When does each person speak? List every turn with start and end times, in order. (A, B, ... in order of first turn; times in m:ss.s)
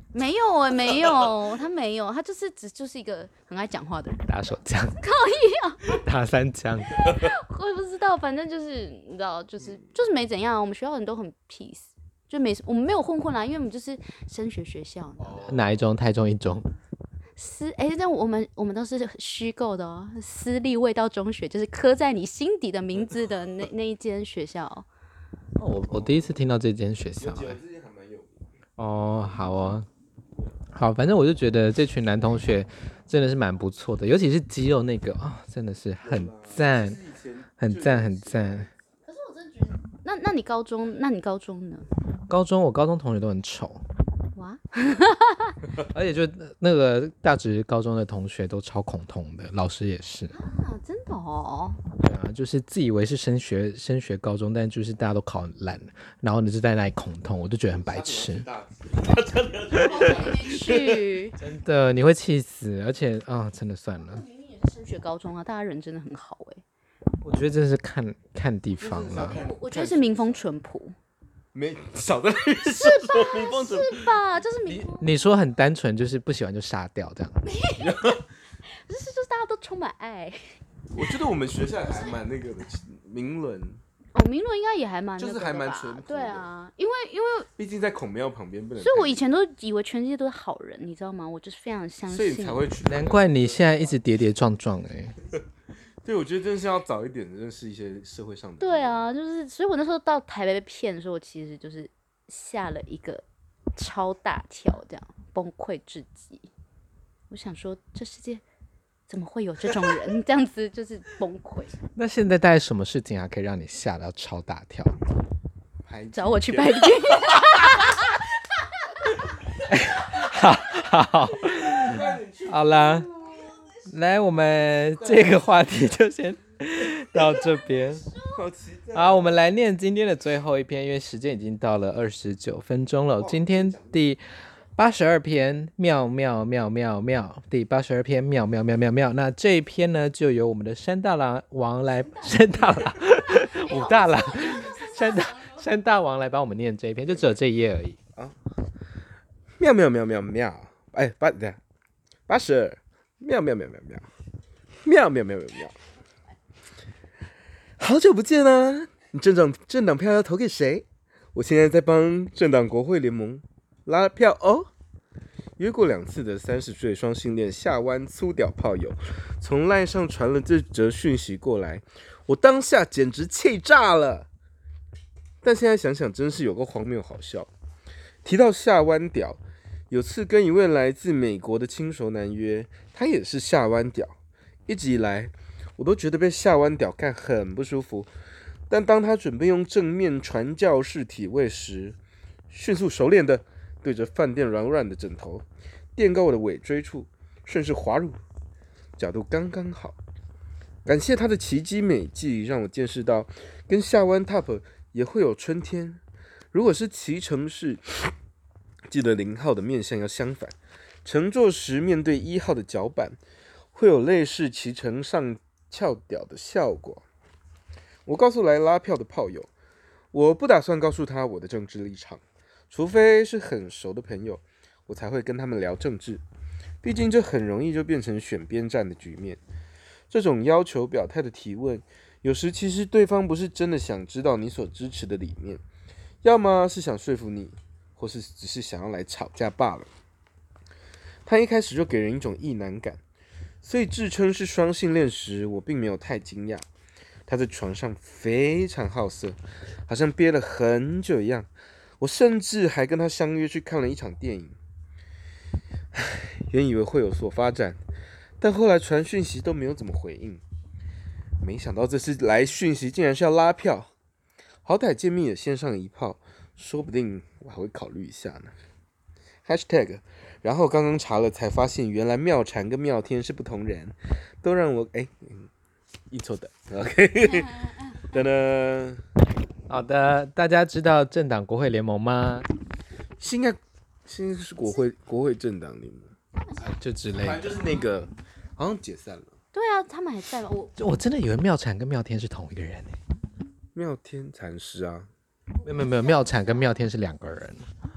0:00.1-0:06.0 A
0:04.3-0:05.0 B
0:05.9-0:07.2 B
0:06.9-0:15.6 A
0:15.4-0:16.6 B
0:17.4-0:24.8 A
0:25.6-0:27.6 B
0:25.8-0:26.3 C
0:27.2-0:28.4 C
0:28.8-0:29.9 B
0:30.7-0:37.0 B
0:36.0-0:38.7 C
0:37.6-0:38.7 B
0:39.0-0:41.9 A
0:42.3-0:43.8 B
0:44.3-0:45.6 A
0:45.8-0:50.3 B
0:50.3-0:51.8 A
0:52.0-0:58.5 B
0:57.7-1:01.1 C
0:59.7-1:01.4 A
1:01.4-1:04.2 B
1:04.0-1:06.6 A
1:07.2-1:09.4 B
1:08.8-1:10.4 C
1:09.3-1:10.9 A
1:11.5-1:14.2 C
1:12.6-1:15.1 A
1:14.9-1:17.4 B
1:17.4-1:18.2 A
1:17.8-1:18.2 C
1:18.8-1:20.6 A
1:20.9-1:23.8 C
1:21.8-1:22.2 A
1:24.1-1:27.5 A
1:25.2-1:26.5 C
1:27.6-1:29.2 C
1:28.8-1:32.6 A
1:32.1-1:33.9 C
1:32.8-1:35.1 B
1:36.0-1:39.0 C
1:38.6-1:43.2 A
1:43.8-1:46.5 A
1:47.3-1:48.4 A
1:49.1-1:51.8 A
1:52.0-1:55.0 B
1:55.8-1:57.8 C
1:56.1-1:58.2 A
1:59.6-2:03.1 B
2:01.5-2:03.6 C
2:03.2-2:03.6 A
2:03.9-2:08.1 B
2:05.0-2:05.5 C
2:07.2-2:08.4 A
2:08.3-2:09.4 C
2:08.9-2:14.2 B
2:13.2-2:14.0 C
2:14.8-2:28.0 B
2:21.9-2:25.7 A
2:27.1-2:27.4 C
2:28.2-2:28.5 C
2:29.6-2:31.6 C
2:32.3-2:34.1 C
2:34.8-2:35.8 C
2:37.8-2:44.7 C
2:45.6-2:54.3 C
2:55.4-2:57.5 C
2:58.2-3:04.2 C
3:04.7-3:08.1 C
3:08.7-3:12.0 C
3:12.5-3:15.4 C
3:16.0-3:18.2 C
3:19.0-3:20.0 C
3:20.8-3:26.0 C
3:26.5-3:28.1 C
3:28.9-3:33.2 C
3:33.7-3:37.0 C
3:38.0-3:39.5 C
3:40.1-3:46.2 C
3:46.8-3:49.4 C
3:50.1-3:55.6 C
3:56.2-3:59.9 C
4:01.2-4:03.0 C
4:03.6-4:06.6 C
4:07.3-4:11.5 C
4:12.0-4:14.6 C
4:15.9-4:17.8 C
4:18.4-4:20.4 C
4:21.4-4:23.9 C
4:24.6-4:28.5 C
4:29.4-4:35.5 C
4:36.1-4:39.0 C
4:37.3-4:37.9 A
4:39.7-4:42.5 B
4:43.2-4:46.1 C
4:46.3-4:46.8 A
4:46.7-4:47.6 B
4:47.1-4:49.3 C
4:47.5-4:47.8 A
4:49.5-4:50.7 A
4:50.8-4:53.0 B
4:53.7-4:55.1 C
4:55.6-4:56.8 A
4:55.6-4:57.7 B